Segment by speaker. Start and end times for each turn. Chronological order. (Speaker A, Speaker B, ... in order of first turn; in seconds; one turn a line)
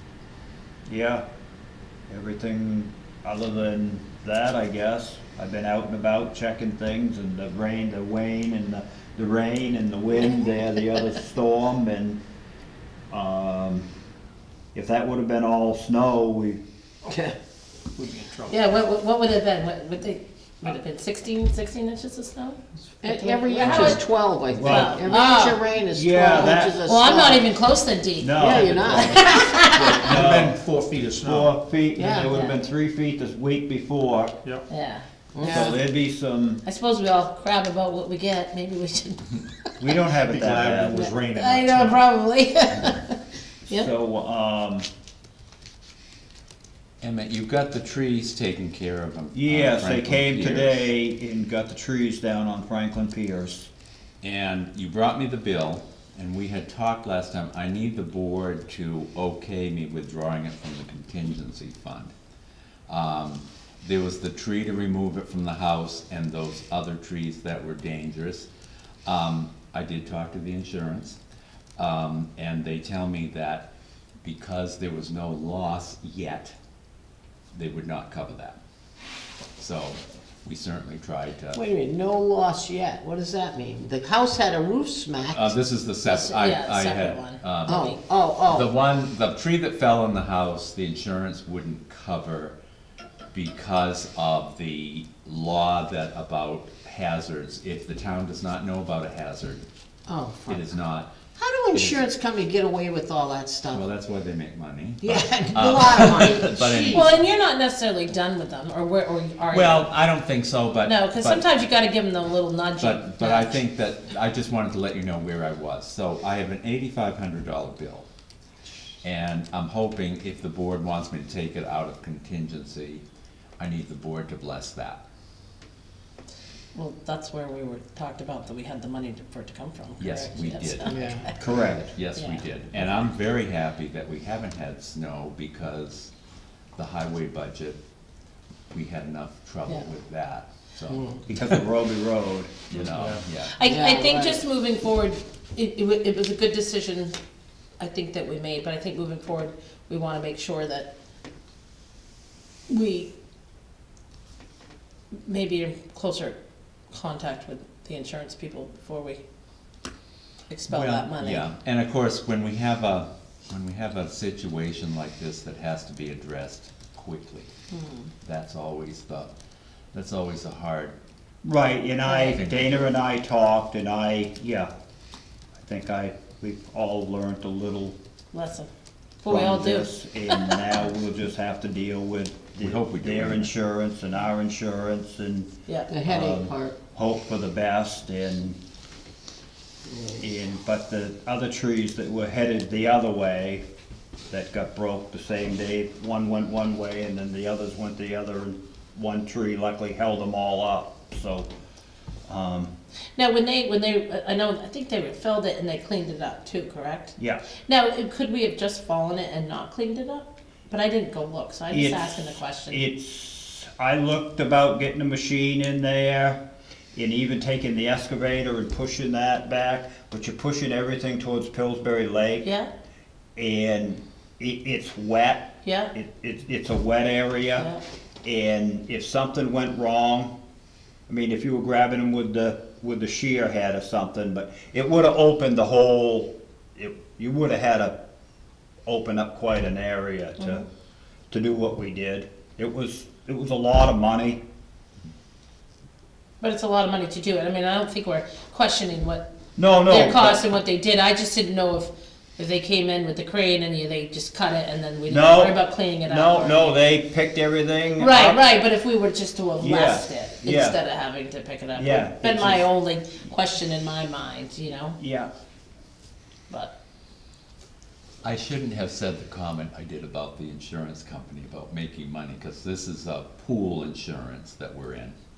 Speaker A: 0.8-1.2
Speaker A: 2.1-12.2
Speaker A: 13.1-13.9
Speaker A: 14.7-16.6
Speaker B: 17.1-17.4
Speaker C: 17.9-18.6
Speaker D: 18.5-24.0
Speaker B: 23.0-27.5
Speaker C: 23.6-24.0
Speaker A: 24.5-25.0
Speaker D: 24.6-25.6
Speaker A: 25.9-26.8
Speaker D: 26.3-29.9
Speaker A: 28.2-29.2
Speaker B: 28.4-30.0
Speaker C: 29.7-31.5
Speaker A: 29.9-30.6
Speaker A: 31.2-34.3
Speaker B: 31.9-32.4
Speaker D: 32.2-32.5
Speaker D: 34.7-35.7
Speaker B: 35.3-35.8
Speaker A: 35.4-36.6
Speaker D: 36.6-40.1
Speaker A: 39.8-41.0
Speaker C: 40.2-42.0
Speaker D: 40.9-43.9
Speaker A: 43.7-44.9
Speaker E: 47.0-50.9
Speaker A: 49.3-53.7
Speaker E: 54.2-62.1
Speaker E: 62.9-68.5
Speaker E: 69.0-71.2
Speaker E: 71.8-73.7
Speaker E: 74.2-76.5
Speaker E: 77.5-78.6
Speaker E: 79.6-81.6
Speaker B: 81.5-85.6
Speaker E: 85.3-92.5
Speaker D: 86.0-88.0
Speaker B: 87.7-88.7
Speaker E: 93.3-99.6
Speaker B: 100.1-100.7
Speaker E: 100.5-101.1
Speaker B: 101.3-103.8
Speaker E: 101.7-102.1
Speaker E: 103.7-107.2
Speaker B: 105.0-107.2
Speaker D: 106.9-109.9
Speaker E: 109.5-111.5
Speaker D: 110.8-113.6
Speaker E: 112.8-118.1
Speaker E: 119.0-123.0
Speaker E: 123.6-125.0
Speaker D: 126.7-131.6
Speaker E: 130.0-136.1
Speaker B: 130.8-131.3
Speaker A: 131.4-131.9
Speaker D: 132.1-133.1
Speaker E: 136.7-137.8
Speaker E: 138.7-141.6
Speaker B: 140.9-141.2
Speaker A: 141.3-142.6
Speaker E: 142.7-143.5
Speaker C: 142.7-143.2
Speaker D: 143.5-147.1
Speaker B: 143.6-144.4
Speaker D: 147.8-150.9
Speaker D: 152.7-153.1
Speaker D: 155.3-156.4
Speaker D: 156.9-159.2
Speaker D: 160.5-161.5
Speaker E: 160.7-167.5
Speaker D: 167.7-168.1
Speaker E: 168.2-169.3
Speaker E: 169.9-170.9
Speaker A: 171.4-174.7
Speaker D: 172.0-172.4
Speaker E: 172.3-173.0
Speaker A: 175.6-177.9
Speaker D: 178.3-178.7
Speaker D: 179.2-180.7
Speaker A: 179.2-185.5
Speaker E: 182.6-183.5
Speaker D: 185.7-185.9
Speaker B: 185.9-186.8
Speaker A: 186.0-188.6
Speaker A: 190.2-193.6
Speaker A: 194.3-201.5
Speaker A: 202.3-202.7
Speaker D: 203.2-212.8
Speaker A: 207.2-207.4
Speaker A: 211.7-216.4
Speaker A: 216.9-222.5
Speaker D: 222.4-222.7
Speaker A: 223.3-227.7
Speaker D: 225.6-225.9
Speaker D: 227.5-227.8
Speaker A: 228.2-230.3
Speaker A: 231.1-238.0
Speaker A: 238.8-240.6
Speaker A: 241.3-244.4
Speaker D: 246.4-249.3
Speaker A: 249.6-250.4
Speaker D: 249.8-256.8
Speaker A: 255.1-258.4
Speaker D: 258.0-265.0
Speaker A: 259.6-260.8
Speaker A: 261.7-262.6
Speaker A: 265.0-265.3
Speaker E: 268.2-275.1